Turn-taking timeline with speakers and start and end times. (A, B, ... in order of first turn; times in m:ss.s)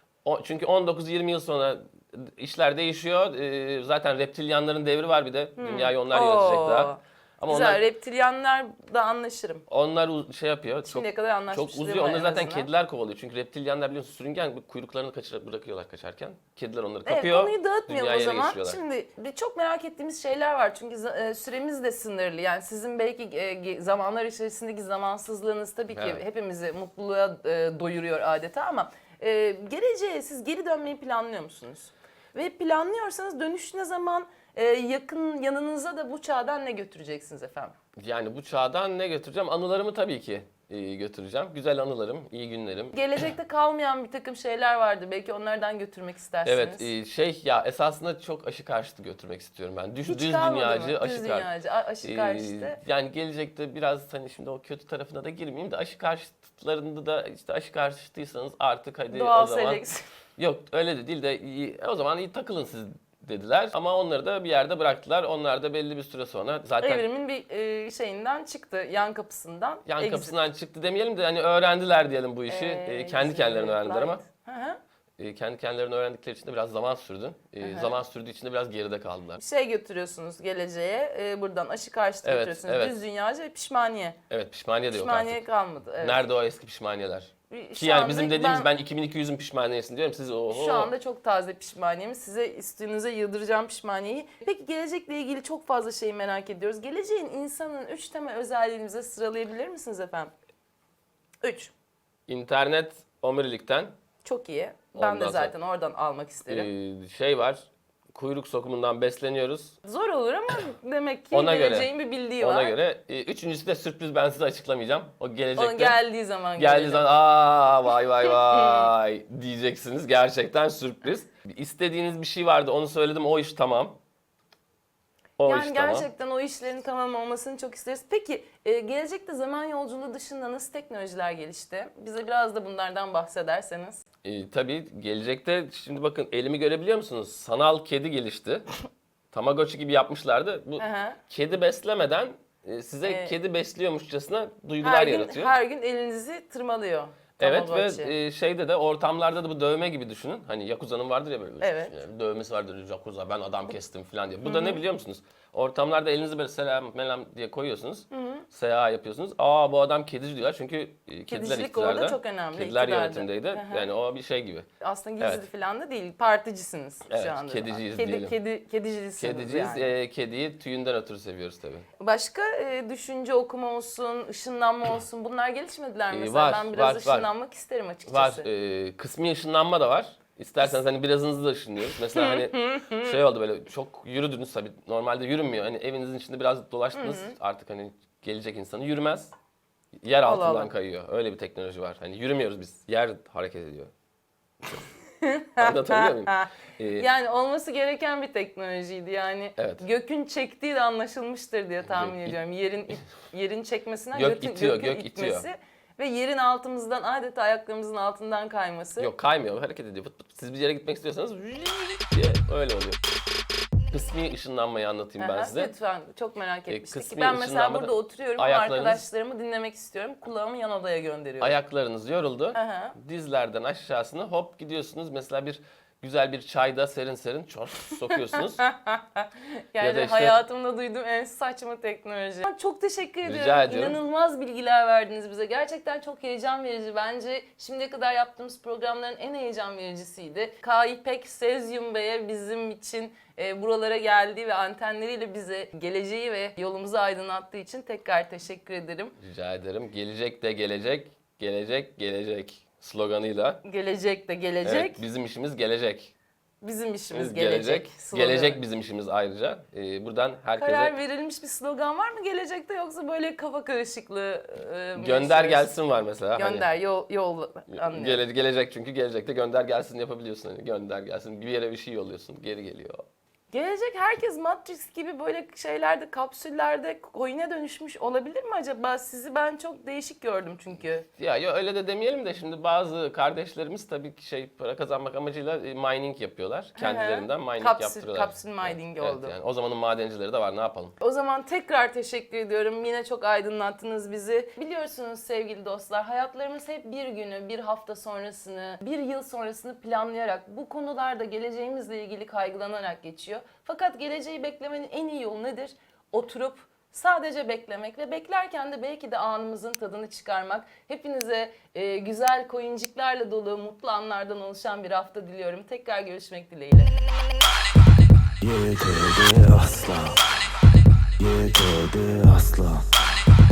0:00.2-0:07.8 A
0:05.6-0:09.6 B
0:09.7-0:18.8 A
0:10.8-0:12.7 B
0:17.0-0:37.7 B
0:25.9-0:26.2 A
0:38.0-0:43.0 A
0:42.9-0:46.9 B
0:46.4-0:51.5 A
0:50.0-0:52.8 B
0:52.0-0:59.8 A
0:59.1-1:00.0 B
1:00.4-1:07.0 A
1:06.8-1:10.4 B
1:09.8-1:14.2 A
1:12.5-1:14.8 B
1:15.2-1:19.4 A
1:17.6-1:17.9 B
1:19.4-1:24.2 B
1:22.2-1:23.0 A
1:24.3-1:25.4 A
1:24.9-1:26.3 B
1:26.0-1:30.9 A
1:27.5-1:28.7 B
1:30.5-1:40.3 B
1:41.4-1:41.7 B
1:42.3-1:43.9 A
1:44.2-1:46.7 B
1:44.9-1:45.5 A
1:46.5-1:49.8 A
1:49.8-1:52.7 B
1:51.3-1:56.0 A
1:55.6-1:57.1 B
1:56.6-2:04.0 A
2:05.4-2:06.1 A
2:05.4-2:14.0 B
2:14.2-2:18.7 A
2:19.3-2:25.5 A
2:20.8-2:21.2 B
2:23.0-2:23.3 B
2:24.8-2:28.1 B
2:27.4-2:44.7 A
2:31.6-2:32.0 B
2:34.4-2:34.8 B
2:38.1-2:38.4 B
2:41.3-2:43.9 B
2:44.8-2:49.9 B
2:47.1-2:48.4 A
2:49.2-2:51.9 A
2:52.0-2:58.4 B
2:56.1-2:57.3 A
2:58.1-3:09.3 A
3:02.2-3:03.1 B
3:06.9-3:07.3 B
3:10.0-3:13.9 A
3:10.2-3:10.7 B
3:15.2-3:29.1 B
3:15.6-3:17.1 A
3:19.6-3:19.8 A
3:21.8-3:22.4 A
3:24.1-3:25.4 A
3:29.0-3:33.0 A
3:33.9-3:35.7 A
3:35.2-3:41.6 B
3:36.7-3:39.0 A
3:41.4-3:48.6 A
3:42.5-3:43.0 B
3:48.2-4:09.1 B
3:49.8-3:50.4 A
3:53.2-3:54.0 A
4:09.2-4:13.6 A
4:13.6-4:15.0 B
4:14.6-4:16.1 A
4:16.6-4:18.6 B
4:17.1-4:21.0 A
4:20.6-4:25.7 B
4:25.0-4:26.7 A
4:26.4-4:28.2 B
4:27.7-4:33.0 A
4:33.5-4:41.0 B
4:41.2-4:51.0 A
4:46.8-4:49.3 B
4:51.0-5:16.9 B
5:18.4-5:20.2 C
5:21.2-5:22.9 C